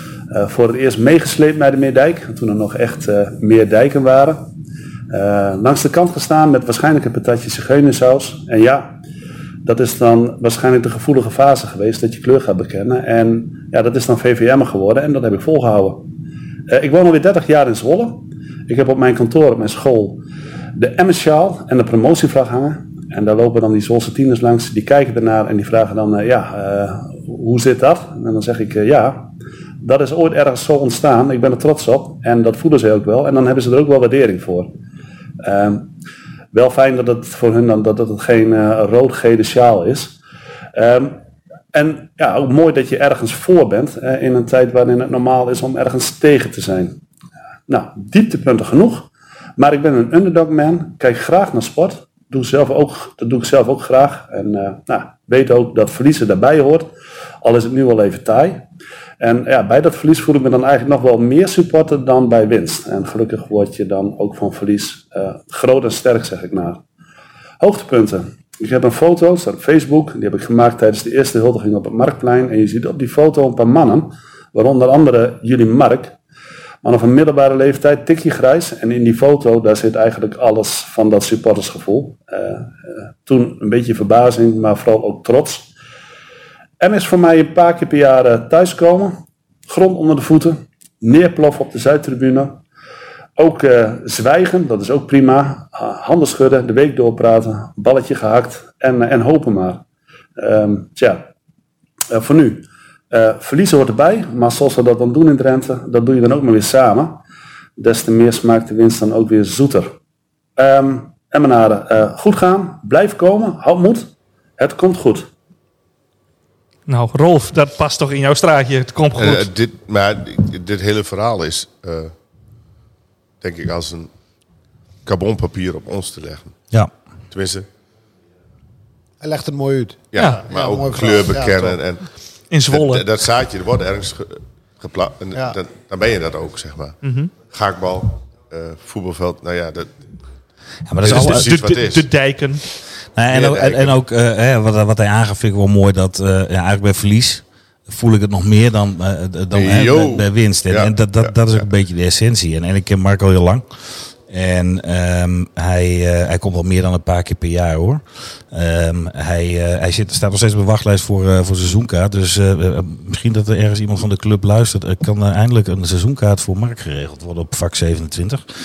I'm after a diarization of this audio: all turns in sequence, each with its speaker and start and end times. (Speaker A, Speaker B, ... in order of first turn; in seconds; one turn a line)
Speaker A: 0.3-4.5
Speaker A: 5.1-9.0
Speaker A: 9.6-16.1
Speaker A: 16.7-20.2
Speaker A: 20.7-34.7
Speaker A: 35.4-35.9
Speaker A: 36.5-40.2
Speaker A: 40.7-41.2
Speaker A: 41.7-47.0
Speaker A: 47.7-58.6
Speaker A: 59.2-66.8
Speaker A: 67.6-76.2
Speaker A: 76.8-85.7
Speaker A: 86.8-92.6
Speaker A: 93.4-99.8
Speaker A: 100.4-101.2
Speaker A: 102.1-107.2
Speaker A: 107.8-109.9
Speaker A: 110.6-115.3
Speaker B: 116.9-119.5
Speaker C: 119.2-122.1
Speaker C: 123.4-124.1
Speaker C: 125.0-126.5
Speaker C: 127.3-127.7
Speaker D: 129.2-131.8
Speaker C: 130.1-132.1
Speaker B: 130.2-130.4
Speaker B: 132.5-133.0
Speaker C: 132.7-137.0
Speaker B: 137.0-137.3
Speaker C: 137.5-139.9
Speaker E: 140.9-141.5
Speaker C: 141.0-142.1
Speaker B: 141.0-142.6
Speaker E: 143.2-153.6
Speaker C: 143.3-144.0
Speaker C: 149.5-151.6
Speaker E: 154.3-168.4